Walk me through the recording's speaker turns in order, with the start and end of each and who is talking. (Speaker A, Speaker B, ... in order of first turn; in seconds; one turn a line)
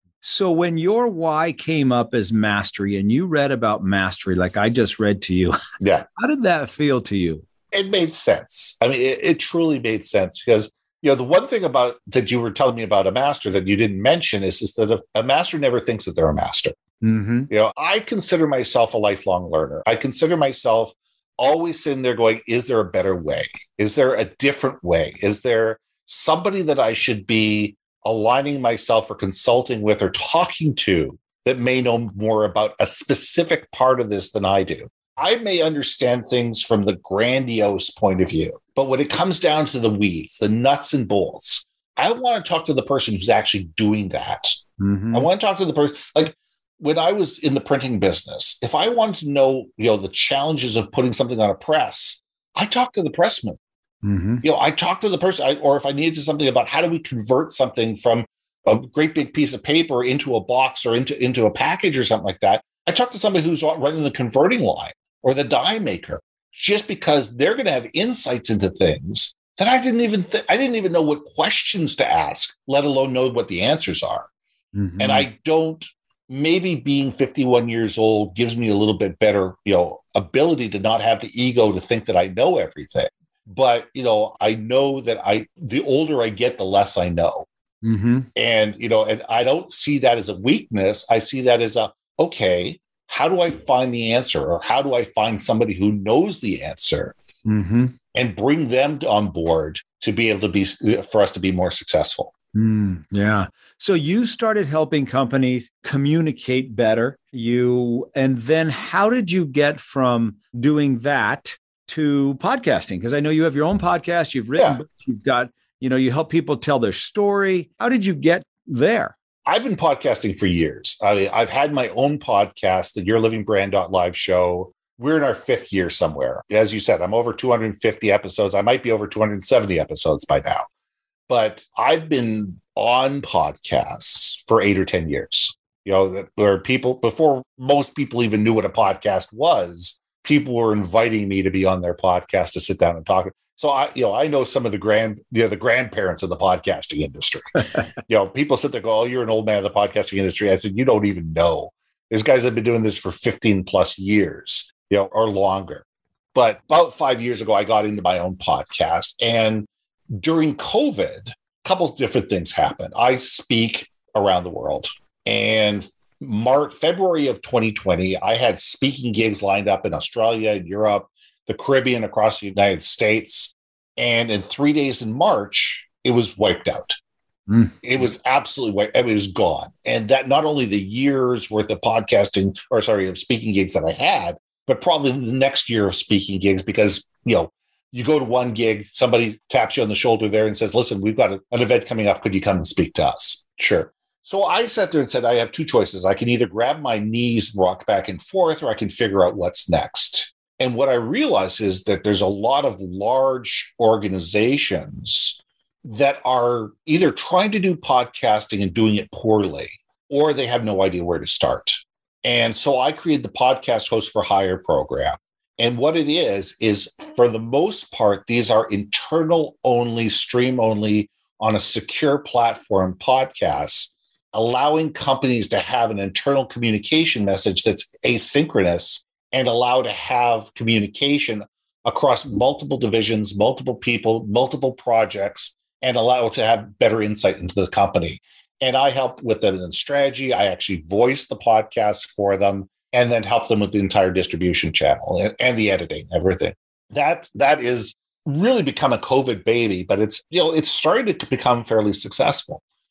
Speaker A: 0.2-5.5
Speaker B: 5.8-6.0
Speaker A: 6.2-7.5
Speaker B: 7.7-16.8
Speaker A: 17.0-17.5
Speaker B: 17.5-44.6
Speaker A: 44.8-45.3
Speaker B: 45.1-53.6
Speaker A: 54.0-54.4
Speaker B: 54.4-74.3
Speaker A: 74.7-75.3
Speaker B: 75.0-87.5
Speaker A: 87.8-88.3
Speaker B: 88.3-97.1
Speaker A: 97.5-97.9
Speaker B: 98.1-102.3
Speaker A: 102.5-119.1
Speaker B: 119.5-130.7
Speaker B: 131.3-177.0
Speaker A: 177.5-177.7
Speaker B: 177.8-252.6